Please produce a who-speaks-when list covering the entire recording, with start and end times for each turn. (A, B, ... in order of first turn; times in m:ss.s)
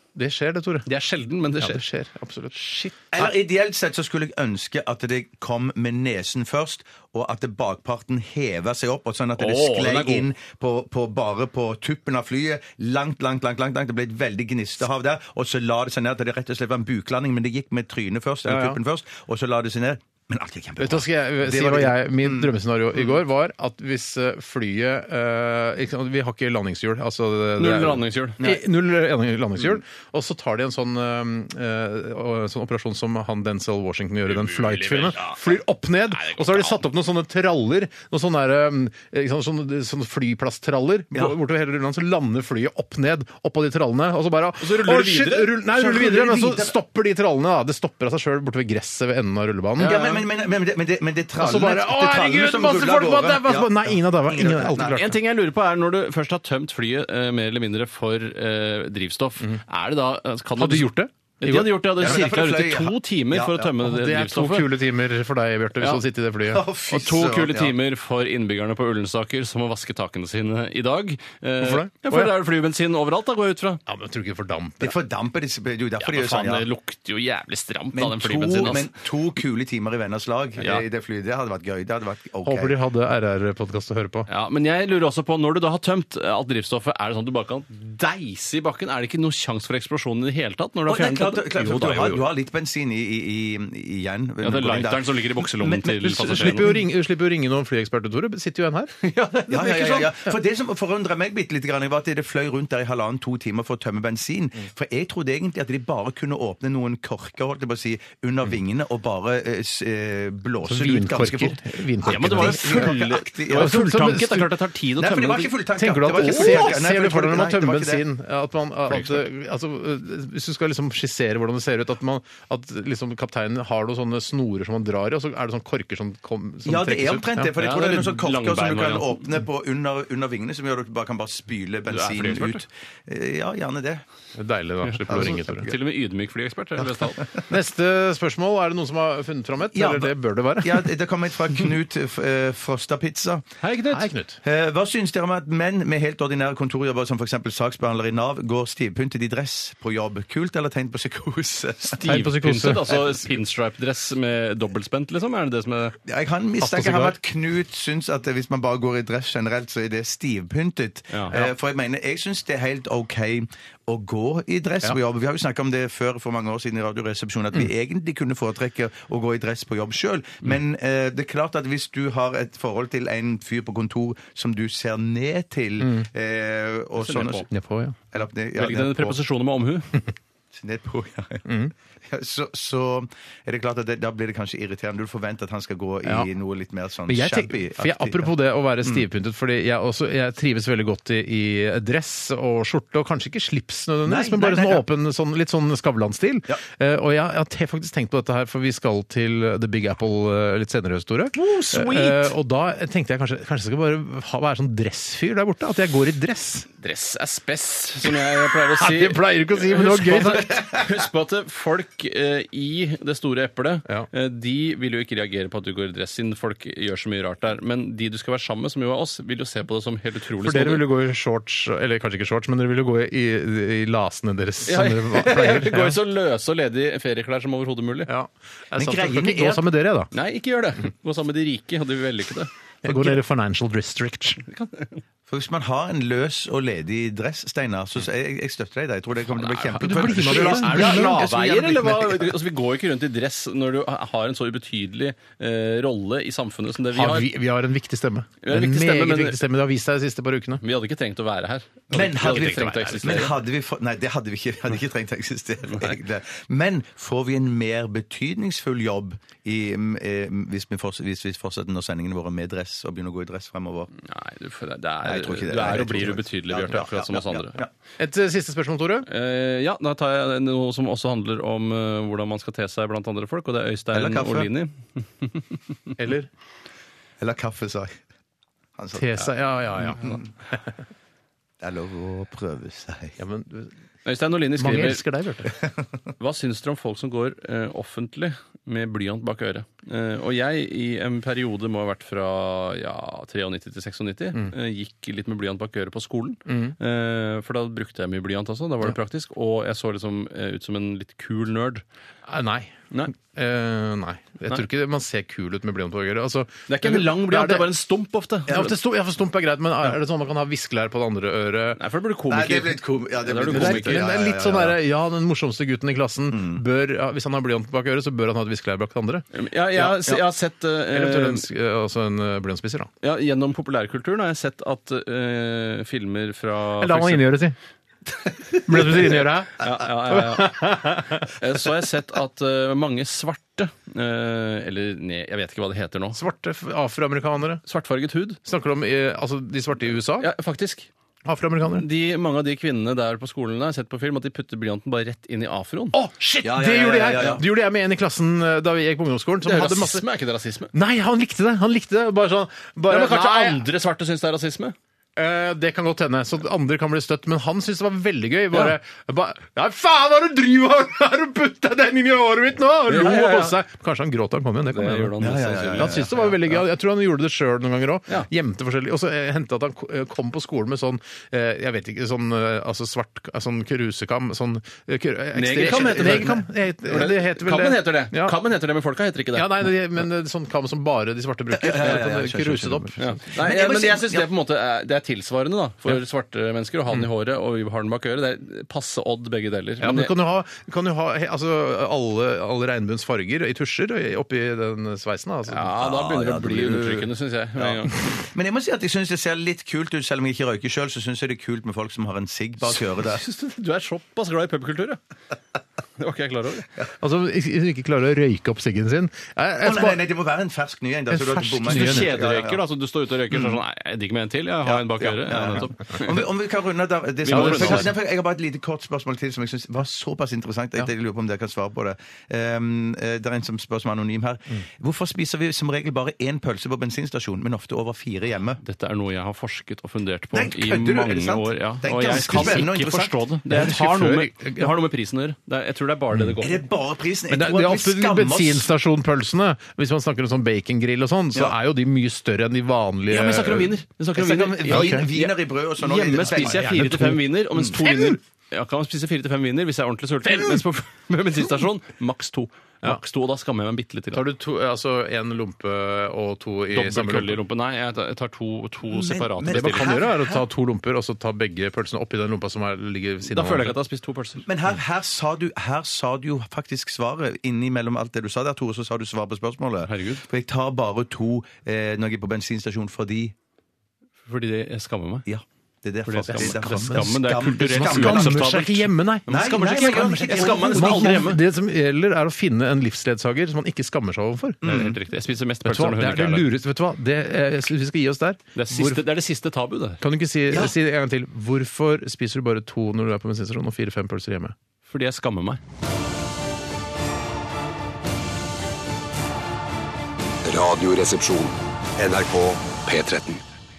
0:00.2-0:00.9 A
0:00.9-0:01.8 B
0:01.6-0:02.6 A
0:02.5-0:03.0 B
0:03.1-0:23.2 C
0:09.4-0:10.3 B
0:18.5-0:18.8 A
0:20.8-0:50.0 A
0:27.6-0:28.4 B
0:34.3-0:35.6 B
0:36.1-0:36.8 B
0:44.6-0:45.6 B
0:45.7-0:46.8 C
0:49.8-0:50.2 B
0:49.8-0:55.0 C
0:51.4-0:55.2 A
0:54.8-1:04.7 B
1:00.6-1:02.2 A
1:02.0-1:03.7 C
1:03.8-1:06.7 A
1:06.5-1:07.8 C
1:06.9-1:13.8 B
1:11.6-1:12.3 A
1:13.9-1:15.0 A
1:14.8-1:16.7 C
1:16.0-1:18.9 B
1:17.9-1:22.8 C
1:22.4-1:24.3 A
1:24.3-1:32.2 B
1:30.9-1:36.8 C
1:34.4-1:36.8 B
1:36.0-1:38.9 A
1:39.0-1:40.2 B
1:39.5-1:53.8 C
1:50.6-1:53.0 A
1:52.0-1:55.5 B
1:53.5-1:54.5 A
1:55.0-1:58.0 C
1:55.8-2:07.5 A
1:56.2-1:56.7 B
1:58.9-1:59.2 B
2:06.6-2:14.0 C
2:07.6-2:09.2 B
2:11.9-2:12.6 B
2:14.4-2:15.7 A
2:14.8-2:17.2 B
2:15.1-2:15.7 C
2:17.5-2:20.9 A
2:19.7-2:23.4 C
2:23.6-2:24.1 B
2:23.9-2:24.4 A
2:24.4-2:32.0 C
2:32.0-2:36.0 B
2:32.0-2:32.9 A
2:36.1-2:57.5 C
2:36.6-2:37.2 A
2:41.1-2:41.4 B
2:55.8-2:56.1 A
2:57.0-2:57.5 B
2:57.5-2:58.0 A
2:58.1-2:59.2 C
2:58.6-3:00.0 B
3:00.5-3:01.5 C
3:01.5-3:01.7 A
3:02.0-3:08.3 C
3:07.1-3:26.7 A
3:14.1-3:14.8 C
3:21.4-3:22.3 B
3:26.8-3:40.8 B
3:28.8-3:30.6 A
3:40.4-3:46.0 A
3:44.6-3:48.1 B
3:48.1-3:50.1 A
3:48.8-3:49.7 C
3:50.1-3:53.1 B
3:52.8-3:54.4 A
3:54.4-3:55.0 B
3:55.3-4:02.3 C
3:59.3-4:07.3 B
3:59.8-4:01.2 A
4:06.9-4:10.6 A
4:08.4-4:09.4 B
4:10.6-4:13.3 B
4:11.9-4:23.9 C
4:11.9-4:13.3 A
4:15.7-4:16.0 B
4:24.0-4:27.6 B
4:25.0-4:27.7 C
4:28.0-4:29.1 A
4:29.1-4:35.6 B
4:33.9-4:34.5 C
4:36.0-4:36.3 A
4:37.2-4:38.0 C
4:38.8-4:40.3 C
4:38.9-4:40.2 A
4:41.6-4:43.2 C
4:43.2-4:43.7 A
4:44.0-4:45.0 B
4:44.6-4:45.5 A
4:46.2-5:01.8 B
4:56.5-4:56.8 A
5:02.3-5:07.7 A
5:06.7-5:08.8 B
5:08.5-5:11.8 A
5:11.8-5:14.1 B
5:12.3-5:14.8 C
5:13.5-5:19.2 A
5:16.3-5:16.6 C
5:19.3-5:21.5 B
5:19.9-5:20.2 C
5:20.9-5:22.9 A
5:23.0-5:27.3 B
5:26.8-5:27.6 A
5:28.6-5:29.6 A
5:29.6-5:36.2 B
5:30.1-5:31.3 A
5:36.2-5:37.6 A
5:37.7-5:38.4 B
5:38.4-5:40.3 A
5:40.2-5:40.9 B
5:41.2-5:41.9 A
5:41.8-5:46.0 B
5:45.9-5:50.0 A
5:46.4-5:47.4 C
5:49.4-5:50.7 B
5:50.7-5:53.6 A
5:52.9-5:54.8 B
5:55.2-6:05.2 A
6:02.9-6:03.6 B
6:04.7-6:06.1 B
6:05.2-6:06.4 C
6:05.8-6:18.4 A
6:15.3-6:19.7 B
6:15.6-6:16.4 C
6:19.3-6:23.2 A
6:21.5-6:24.3 C
6:23.0-6:30.1 B
6:29.8-6:35.7 A
6:35.5-6:38.0 B
6:35.8-6:43.2 C
6:43.0-6:45.0 B
6:46.0-6:46.7 B
6:47.0-6:50.0 A
6:49.6-6:52.6 C
6:51.1-6:52.1 A
6:51.7-6:56.2 B
6:53.3-6:53.6 C
6:54.7-7:08.6 C
6:57.3-6:57.9 B
6:57.3-6:57.9 A
7:08.6-7:16.7 B
7:10.3-7:13.1 C
7:12.2-7:12.7 A
7:13.5-7:14.7 A
7:16.4-7:18.7 C
7:17.3-7:23.7 A
7:23.1-7:34.2 B
7:24.2-7:26.8 C
7:24.7-7:25.1 A
7:26.2-7:28.2 A
7:30.3-7:30.6 A
7:34.1-7:37.4 A
7:36.7-7:40.0 B
7:38.9-7:40.4 C
7:39.5-7:43.8 A
7:43.2-7:44.4 B
7:44.5-7:53.3 C
7:49.8-7:50.2 B
7:54.3-7:55.3 B
7:55.3-7:58.5 C
7:56.1-8:01.4 B
7:56.3-8:04.6 A
7:59.3-8:01.2 C
8:04.6-8:05.0 C
8:04.6-8:06.5 B
8:05.6-8:09.0 A
8:08.6-8:10.0 B
8:10.0-8:14.6 A
8:14.9-8:15.6 B
8:20.4-8:23.4 D